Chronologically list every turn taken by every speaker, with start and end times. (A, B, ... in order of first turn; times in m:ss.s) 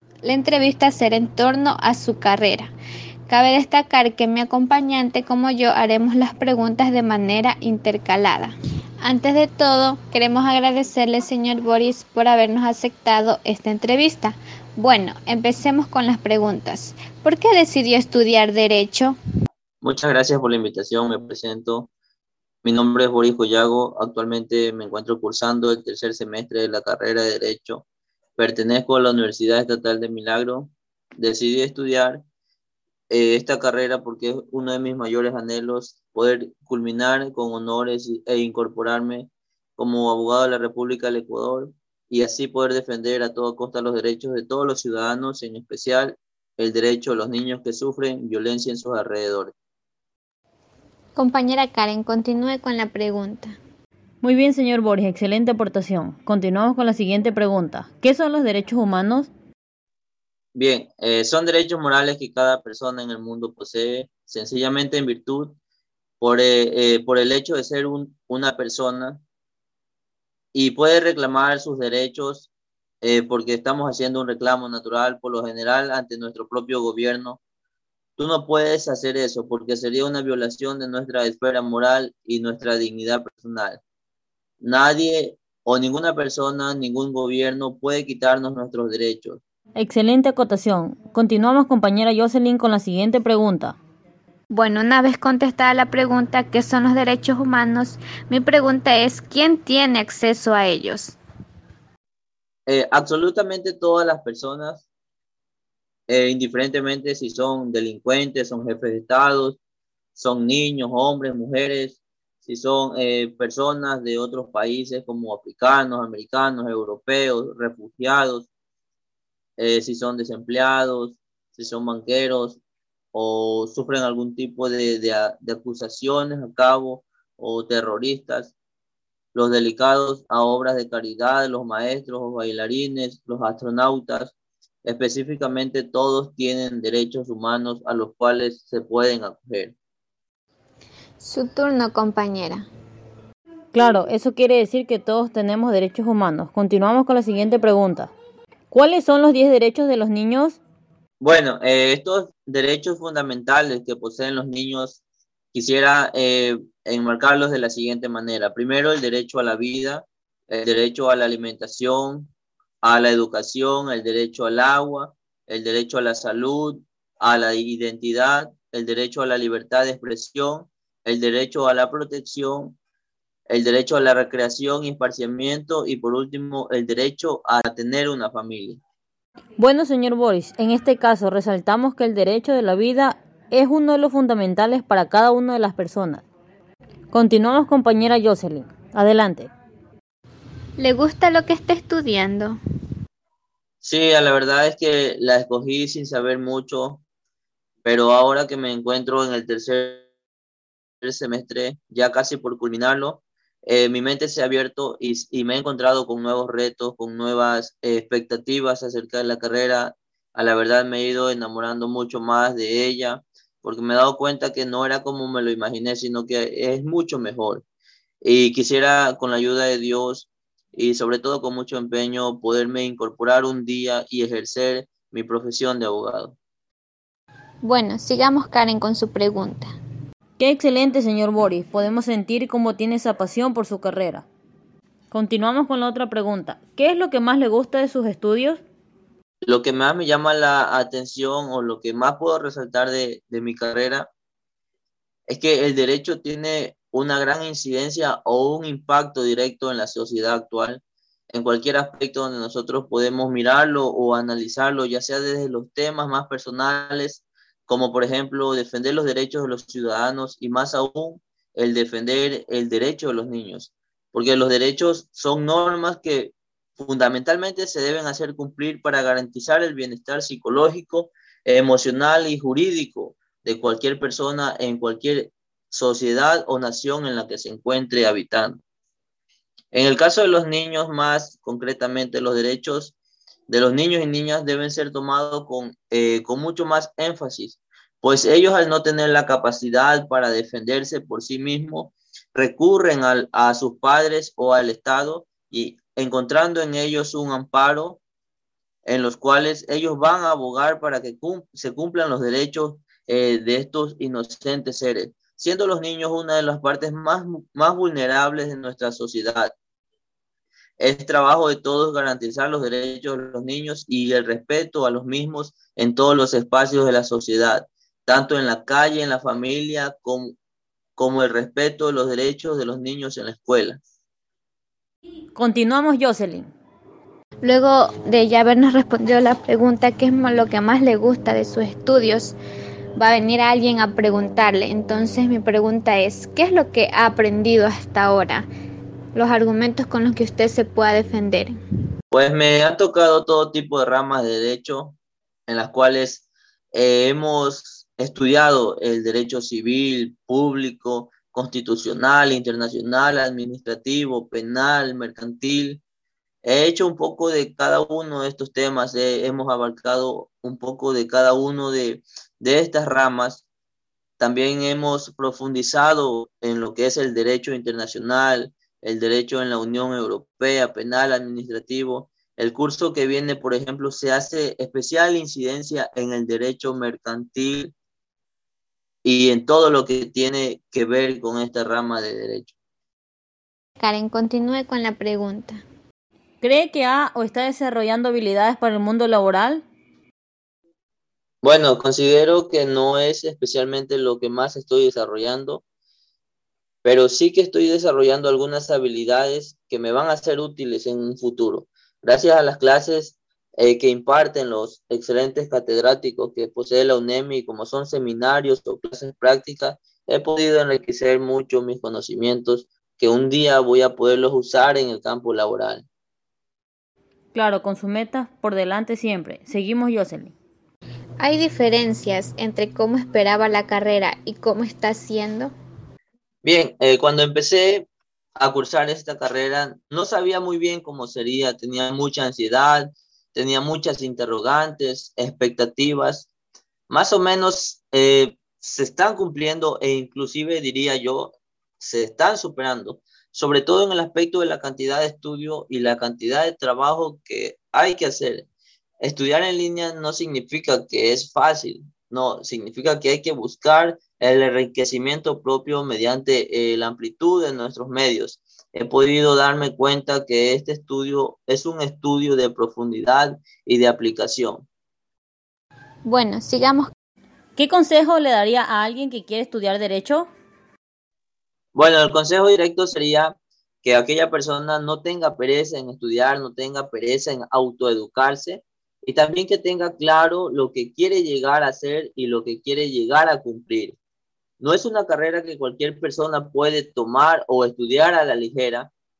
0:00.2-0:02.7 A
0:03.3-0:19.2 A
0:19.8-0:21.9 B
0:22.6-0:27.8 B
0:28.4-0:32.2 B
0:33.1-0:49.5 B
0:51.2-0:53.5 A
0:54.2-0:59.3 C
1:00.5-1:05.6 B
1:06.2-1:09.2 B
1:10.5-1:12.5 B
1:13.0-1:17.4 B
1:18.2-1:23.8 B
1:24.6-1:29.4 B
1:29.8-1:33.8 C
1:34.5-1:41.2 A
1:42.7-1:44.8 B
1:46.1-1:49.6 B
1:50.2-1:58.5 B
1:59.6-2:02.6 B
2:03.1-2:08.5 B
2:09.3-2:14.3 B
2:14.8-2:19.7 B
2:21.2-2:22.7 A
2:23.7-2:28.1 C
2:28.7-2:30.6 C
2:31.2-2:35.0 B
2:35.5-2:42.3 B
2:42.8-2:52.8 B
2:53.5-2:58.8 B
2:59.6-3:06.2 C
3:07.1-3:09.5 C
3:10.8-3:12.6 A
3:13.8-3:17.0 B
3:17.8-3:20.0 B
3:21.0-3:37.6 B
3:38.2-3:46.4 B
3:47.6-3:49.7 A
3:50.4-3:54.2 C
3:55.1-3:58.6 C
3:59.4-4:04.1 B
4:05.3-4:38.6 B
4:39.7-4:42.9 B
4:43.5-4:58.0 B
4:58.8-5:09.5 B
5:10.8-5:20.4 B
5:21.0-5:23.8 B
5:25.3-5:26.5 C
5:27.4-5:32.4 A
5:33.0-5:38.4 A
5:39.1-5:41.5 A
5:42.1-5:45.0 B
5:45.5-5:55.8 B
5:56.4-6:03.4 B
6:04.2-6:17.7 B
6:19.0-6:22.5 B
6:23.8-6:25.6 A
6:26.4-6:29.6 C
6:31.4-6:35.6 B
6:36.8-6:55.8 B
6:57.3-7:00.3 C
7:01.2-7:05.5 A
7:06.4-7:16.3 B
7:16.9-7:28.5 B
7:29.0-7:44.6 B
7:46.0-7:46.9 A
7:47.6-7:50.3 C
7:51.7-8:04.0 B
8:04.6-8:08.9 B